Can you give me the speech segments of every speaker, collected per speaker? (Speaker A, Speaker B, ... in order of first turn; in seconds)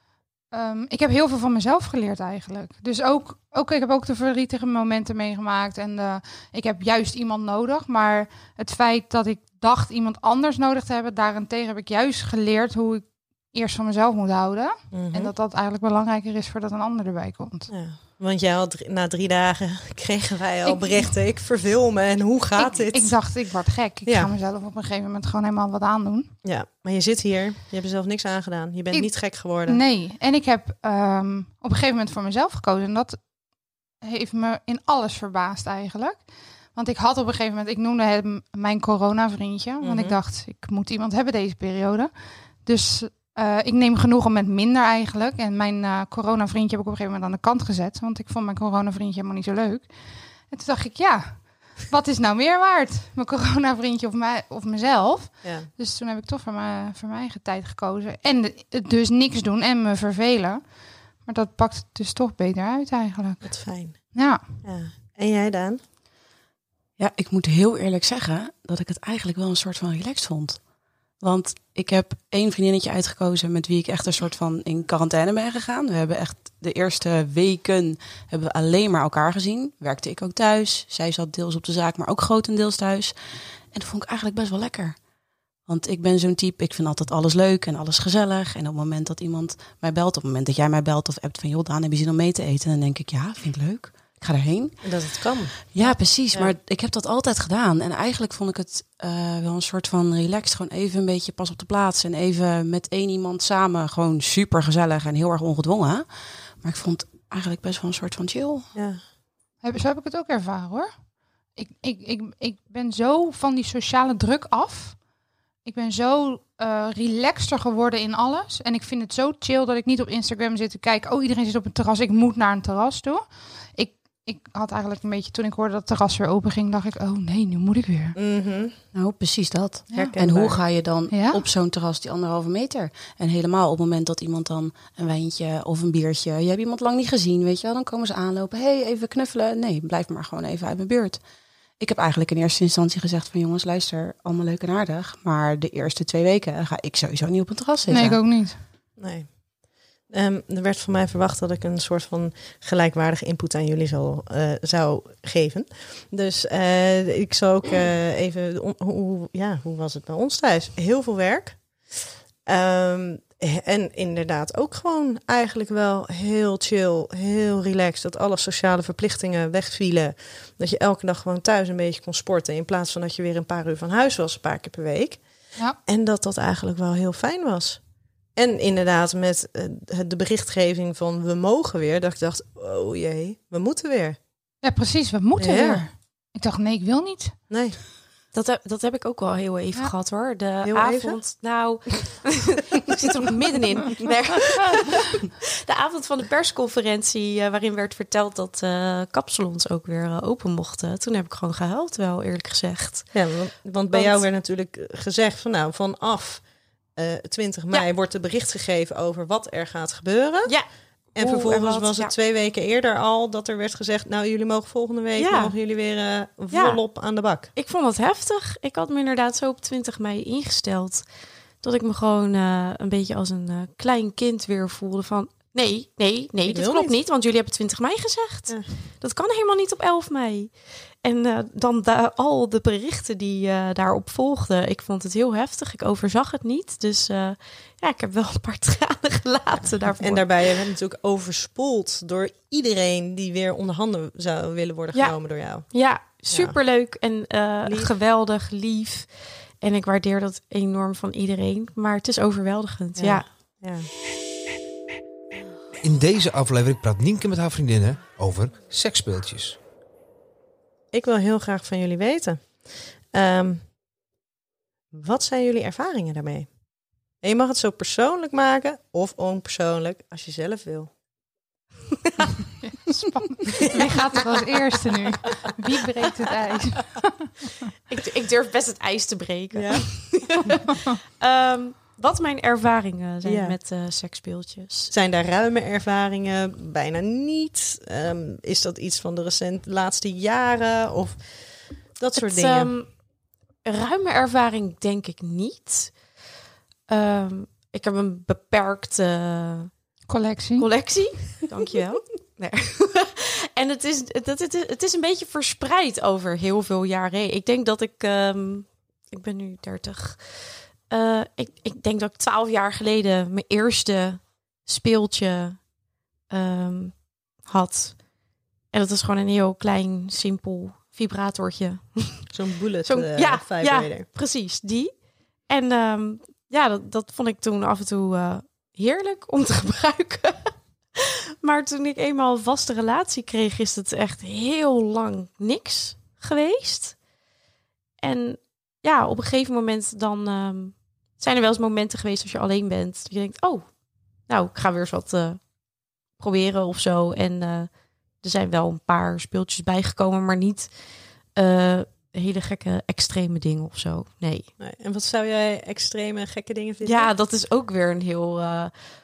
Speaker A: 0.5-17.7, 20.7-21.1, 22.6-26.3, 29.7-33.2, 34.0-36.2, 36.8-42.1, 42.6-49.9, 50.5-60.6, 61.2-64.4, 109.6-110.9, 111.6-115.0, 115.7-123.2, 123.8-128.2, 131.1-131.4, 147.9-148.6, 184.6-187.4, 272.7-277.6, 300.1-300.7
Speaker B: 14.9-15.3, 17.7-23.2, 26.4-29.8, 39.8-40.2, 55.4-55.7, 63.4-65.8, 94.8-95.7, 108.8-109.0, 128.2-128.8, 129.9-130.6, 149.0-149.3, 150.1-161.6, 162.5-175.2, 175.9-177.8, 178.4-184.2, 185.4-185.9, 187.5-187.8, 190.6-191.2, 203.1-206.4, 207.0-210.6, 211.2-217.5, 226.5-227.0, 240.0-245.7, 246.3-246.6, 247.6-247.9, 253.0-253.9, 260.9-262.6, 263.1-263.6, 264.9-266.5, 267.2-270.9, 273.5-273.9, 279.5-279.9, 283.2-283.6, 284.9-291.2, 292.0-292.7, 322.3-324.1, 354.6-357.1
Speaker C: 67.0-70.6, 71.2-83.1, 83.7-85.0, 85.7-94.9, 95.7-106.1, 106.6-108.7, 128.9-141.2, 141.8-148.2
Speaker D: 188.3-203.2, 203.9-204.2, 210.5-212.1, 215.2-215.6, 216.5-216.8, 217.6-221.1, 221.6-240.3, 244.9-253.3, 277.9-284.9, 292.2-292.9, 293.6-296.0, 296.9-299.7, 300.6-315.6, 316.3-318.0, 318.7-322.2, 322.9-337.0, 338.0-343.8, 344.3-345.4, 346.2-350.7, 351.4-354.5, 356.8-358.7
Speaker E: 255.8-259.6